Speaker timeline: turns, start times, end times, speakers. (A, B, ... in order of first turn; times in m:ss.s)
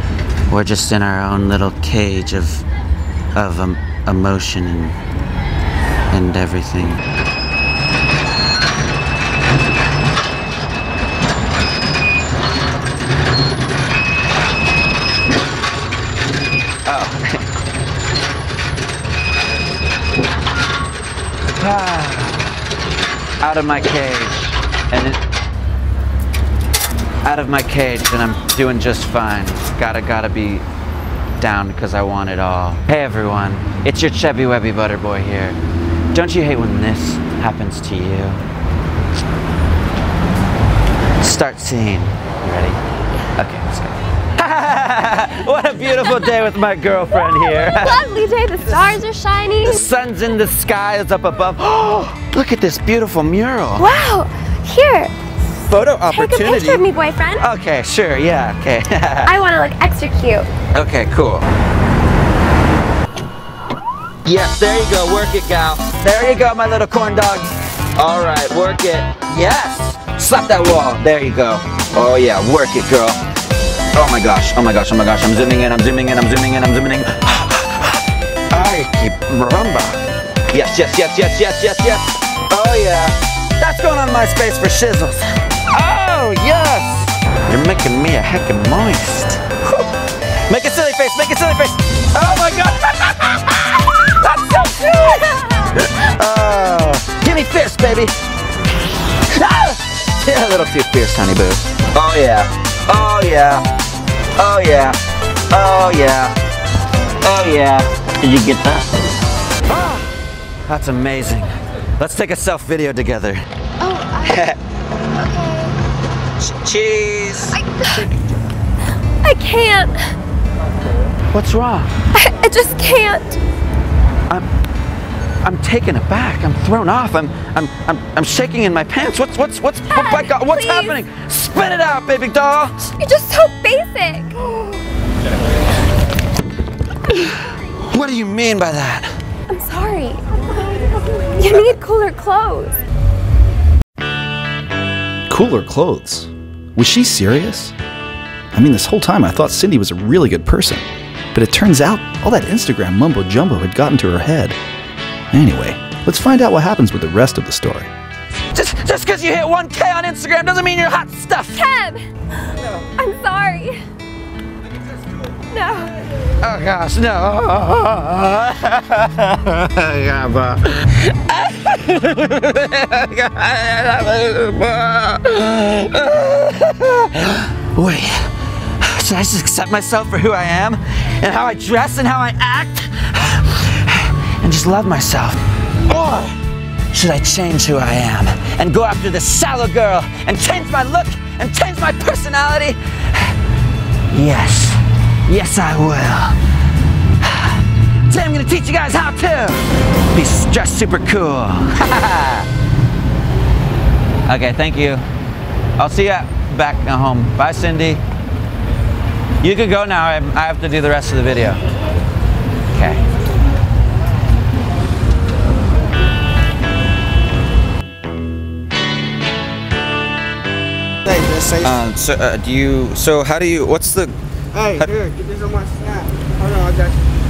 0:00.5-0:02.6 A
0:03.3-0:05.0 A
0:06.1-0:07.0 A
0:16.8-0:17.4 A
0:21.5-0:22.5 A
0:23.4-0:25.2 A
0:27.2-0:30.6 A
0:31.4-0:35.6 A
0:36.1-0:38.4 A
0:41.2-0:42.8 A
0:43.4-0:48.0 A
0:45.9-0:46.4 B
0:47.2-0:49.8 B
0:48.6-0:49.0 A
0:49.6-0:53.9 A
0:53.8-0:55.1 B
0:55.7-0:56.8 A
0:56.1-0:57.5 B
0:57.4-0:59.3 A
0:59.2-1:00.5 B
1:00.7-1:01.5 A
1:04.2-1:13.2 A
1:13.9-1:17.9 A
1:18.5-1:29.8 A
1:30.5-1:38.1 A
1:39.3-1:43.6 A
1:44.4-1:45.0 A
1:45.5-1:46.4 A
1:47.2-1:49.0 A
1:49.7-1:50.1 A
1:50.7-1:53.4 A
1:53.8-1:54.5 B
1:54.2-1:54.6 A
1:55.1-1:55.8 B
1:56.4-1:57.6 A
1:57.5-1:58.0 B
1:59.2-2:00.1 B
2:01.3-2:01.9 A
2:02.1-2:03.4 B
2:05.4-2:12.8 A
2:09.9-2:11.0 B
2:12.8-2:14.3 B
2:17.9-2:19.1 A
2:19.5-2:20.3 B
2:21.4-2:22.7 B
2:25.3-2:27.7 C
2:28.5-2:34.6 C
2:35.3-2:37.9 C
2:38.5-2:41.6 A
2:41.5-2:42.0 B
2:43.0-2:43.8 B
2:45.5-2:45.9 B
2:46.4-3:06.3 A
3:06.9-3:13.3 A
3:14.1-3:16.4 A
3:17.2-3:22.5 A
3:24.2-3:25.0 A
3:25.8-3:28.0 A
3:29.4-3:31.6 A
3:32.7-3:33.0 A
3:41.1-3:41.8 D
3:41.6-3:44.1 A
3:44.5-3:47.0 D